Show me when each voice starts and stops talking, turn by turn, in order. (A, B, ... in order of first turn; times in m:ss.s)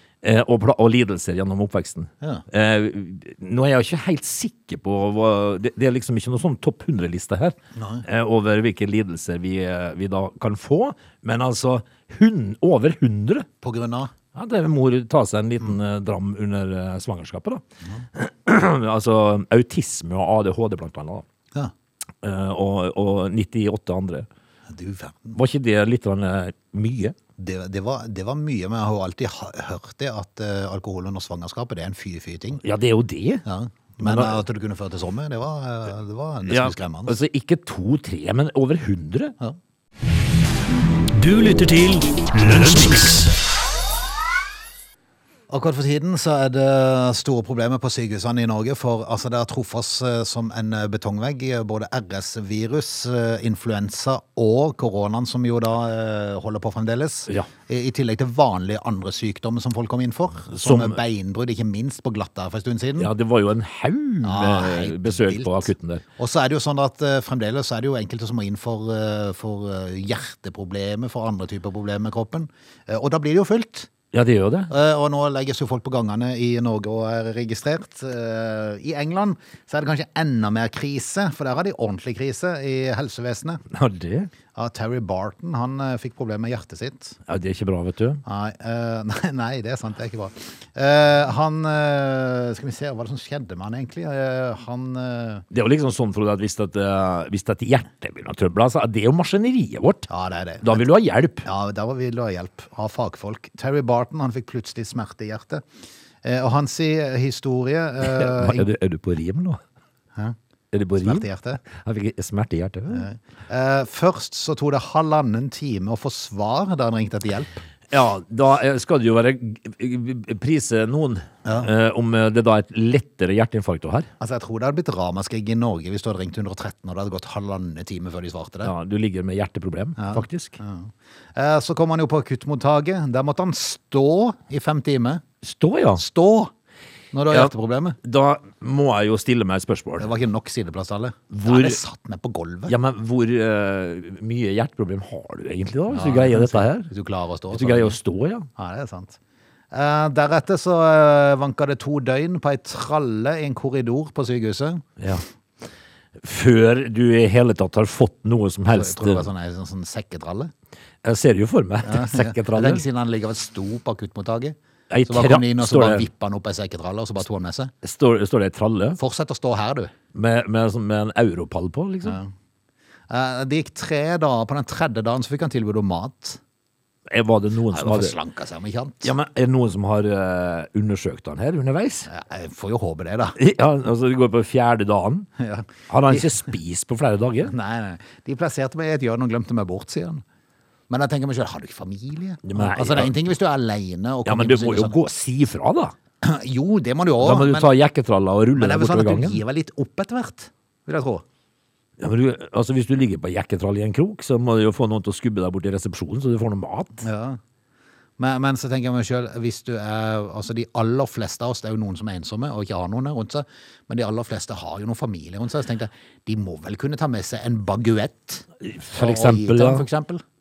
0:00.2-0:13.5 A
0:07.7-0:08.0 B
0:13.6-0:14.1 B
0:14.3-0:17.6 A
0:18.1-0:21.2 A
0:22.2-0:24.3 A
0:24.7-0:25.4 B
0:25.3-0:27.2 A
0:27.4-0:32.6 B
0:32.6-0:33.4 A
0:33.4-0:37.2 B
0:34.0-0:34.4 A
0:36.5-0:39.3 A
0:41.1-0:43.3 C
0:45.5-1:03.1 B
1:00.5-1:01.0 A
1:03.0-1:06.0 A
1:04.2-1:13.9 B
1:14.1-1:14.7 A
1:14.7-1:23.6 B
1:23.7-1:24.3 A
1:24.5-1:27.2 B
1:27.3-1:28.2 A
1:28.2-1:35.4 B
1:35.5-1:40.1 A
1:40.1-1:40.8 B
1:40.6-1:41.4 A
1:41.4-1:45.6 B
1:46.2-1:48.7 B
1:48.0-1:49.6 A
1:50.7-1:53.1 A
1:51.0-1:51.6 B
1:52.9-1:57.6 B
1:57.9-2:04.1 A
2:01.4-2:01.7 B
2:04.2-2:08.7 B
2:08.6-2:10.6 A
2:10.0-2:15.2 B
2:15.4-2:16.0 A
2:16.0-2:16.5 B
2:17.1-2:18.0 B
2:18.0-2:20.1 A
2:20.0-2:22.7 B
2:21.3-2:21.8 A
2:22.7-2:26.9 A
2:25.9-2:28.0 B
2:27.5-2:28.5 A
2:28.6-2:29.2 B
2:29.7-2:34.8 B
2:35.0-2:35.2 A
2:36.2-2:39.3 A
2:38.7-2:40.5 B
2:41.0-2:42.8 A
2:41.8-2:47.7 B
2:44.9-2:46.1 A
2:47.8-2:49.0 A
2:49.0-2:49.9 B
2:50.1-2:52.2 A
2:52.0-2:52.3 B
2:53.1-2:56.4 B
2:57.1-2:58.1 A
2:57.7-2:59.1 B
2:59.0-3:02.1 A
3:02.1-3:03.4 B
3:03.4-3:05.3 A
3:05.4-3:06.5 B
3:05.9-3:07.5 A
3:07.4-3:10.2 B
3:10.9-3:15.0 B
3:12.4-3:13.2 A
3:14.2-3:15.9 A
3:16.2-3:17.7 B
3:17.2-3:19.4 A
3:18.5-3:21.2 B
3:22.0-3:27.0 A
3:27.0-3:27.4 B
3:28.2-3:40.2 B
3:38.6-3:39.8 A